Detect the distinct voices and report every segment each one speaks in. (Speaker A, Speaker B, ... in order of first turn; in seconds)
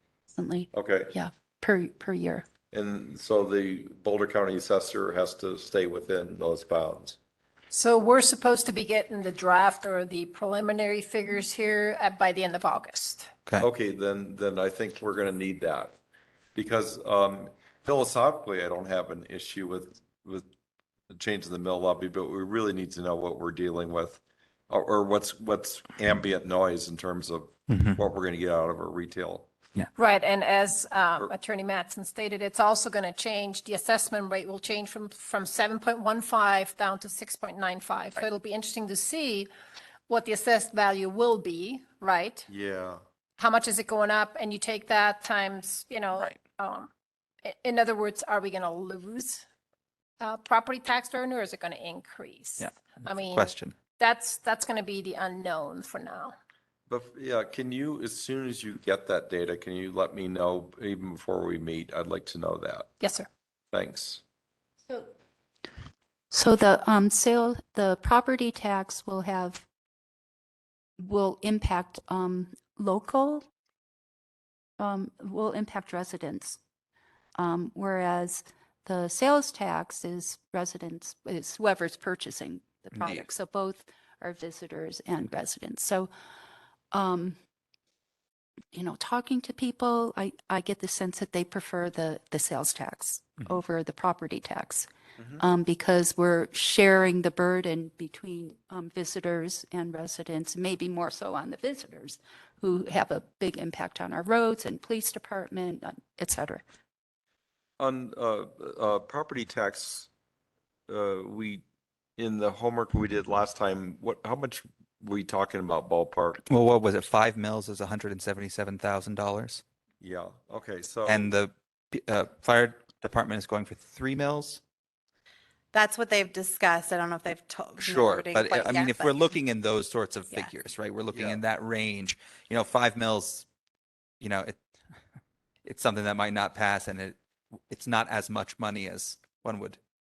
Speaker A: 0.3-2.5, 66.3-69.7, 71.0-73.5, 74.8-76.6, 77.4-86.1, 86.9-87.3, 88.7-106.6
Speaker B: 0.7-1.1, 2.7-7.2, 13.6-15.9, 16.5-20.5, 21.1-29.5, 42.5-43.0, 56.9-62.9, 63.7-64.2, 95.2-95.4, 107.8-110.1, 110.9-111.6, 112.2-116.4, 120.0-121.3, 131.1-131.4
Speaker C: 7.7-13.3, 29.9-39.5, 40.1-42.5, 43.4-46.9, 47.4-49.4, 50.2-56.3, 63.0-63.3
Speaker D: 27.7-28.0, 46.1-46.4, 52.6-53.8, 83.0-83.2, 116.5-119.6, 121.0-124.6, 127.8-133.4, 134.2-134.6, 135.6-137.2, 137.7-139.8
Speaker E: 125.7-129.3